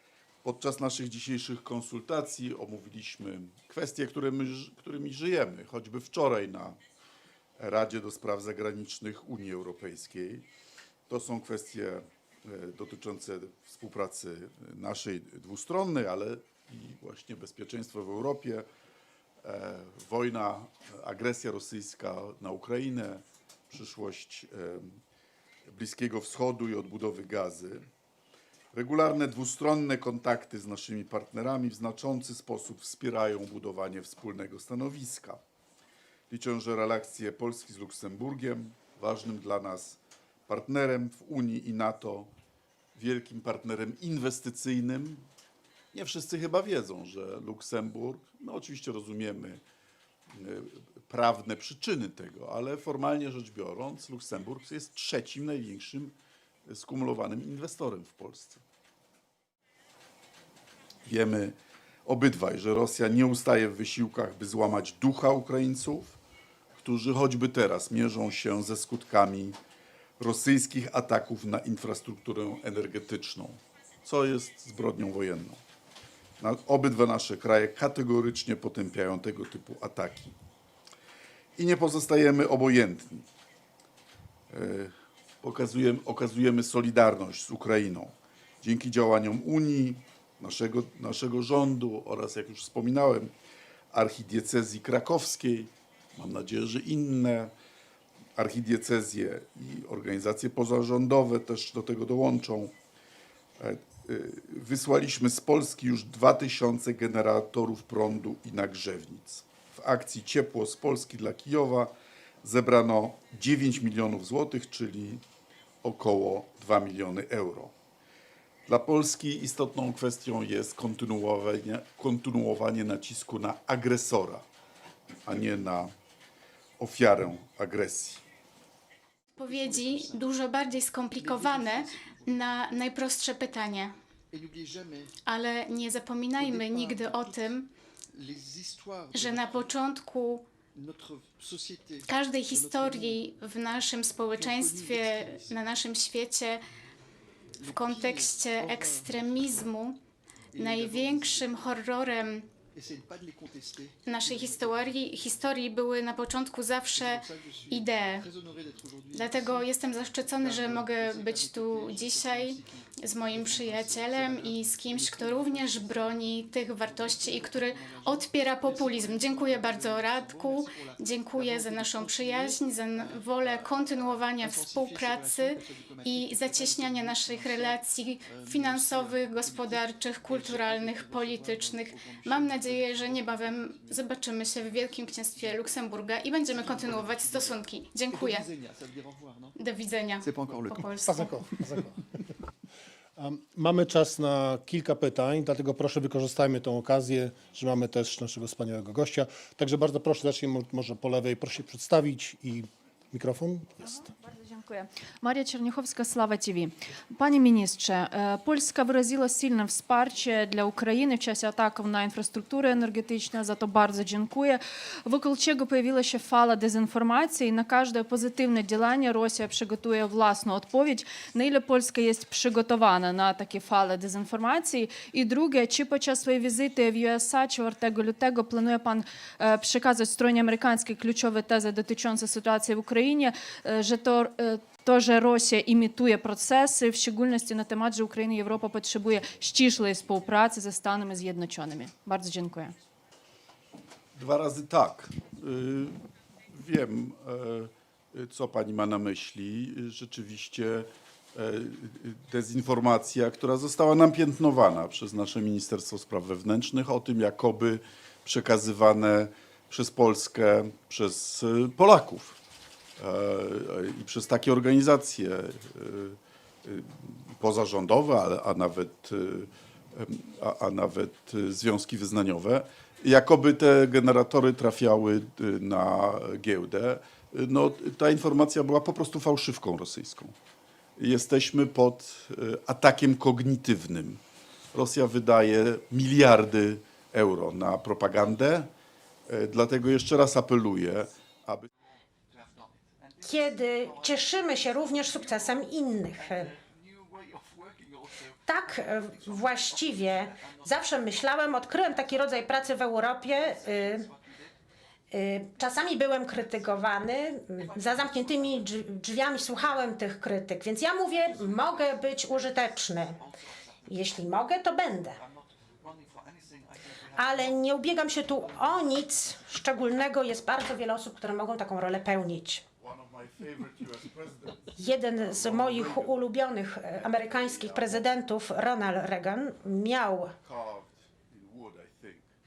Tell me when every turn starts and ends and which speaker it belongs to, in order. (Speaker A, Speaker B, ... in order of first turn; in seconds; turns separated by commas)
Speaker A: 0.4-6.8, Speaker A: 7.6-10.5, Speaker A: 11.1-18.7, Speaker A: 19.4-25.0, Speaker A: 25.7-27.9, Speaker A: 28.7-35.4, Speaker A: 36.3-42.3, Speaker A: 43.0-45.3, Speaker A: 45.9-49.6, Speaker A: 50.3-56.2, Speaker A: 56.7-58.6, Speaker A: 61.0-66.2, Speaker A: 66.8-69.6, Speaker A: 70.2-75.6, Speaker A: 76.4-80.3, Speaker A: 81.6-83.3, Speaker A: 84.5-93.3, Speaker A: 93.9-97.5, Speaker A: 98.4-102.7, Speaker A: 103.6-115.2, Speaker A: 115.8-117.7, Speaker A: 118.7-124.5, Speaker A: 125.3-125.9, Speaker A: 126.8-128.2, Speaker B: 129.4-133.9, Speaker C: 129.5-130.3, Speaker C: 131.2-132.7, Speaker C: 134.3-135.1, Speaker B: 135.3-137.7, Speaker C: 136.4-137.5, Speaker C: 138.1-139.8, Speaker B: 139.1-140.5, Speaker C: 140.7-143.2, Speaker B: 142.1-146.6, Speaker C: 144.3-145.6, Speaker C: 147.6-149.6, Speaker B: 147.7-150.0, Speaker C: 150.5-151.7, Speaker B: 150.6-152.5, Speaker C: 152.6-154.9, Speaker B: 154.1-158.3, Speaker C: 156.9-184.1, Speaker B: 159.1-188.5, Speaker C: 185.3-185.9, Speaker C: 186.4-189.6, Speaker B: 189.6-191.4, Speaker C: 190.2-190.9, Speaker D: 191.0-192.1, Speaker D: 193.2-204.1, Speaker E: 203.8-242.7, Speaker A: 244.2-262.4, Speaker A: 263.0-280.4, Speaker A: 281.0-284.2, Speaker A: 284.7-288.7, Speaker A: 289.3-291.7, Speaker C: 292.3-295.6, Speaker F: 293.2-296.6, Speaker C: 296.2-300.8, Speaker F: 298.5-304.1, Speaker C: 301.9-304.5, Speaker F: 305.1-313.2, Speaker C: 307.7-308.6, Speaker C: 311.3-314.2, Speaker F: 313.9-315.2, Speaker C: 315.2-319.3, Speaker F: 317.1-322.6, Speaker A: 322.8-326.2, Speaker F: 324.8-330.3, Speaker A: 327.0-328.2, Speaker A: 330.4-332.3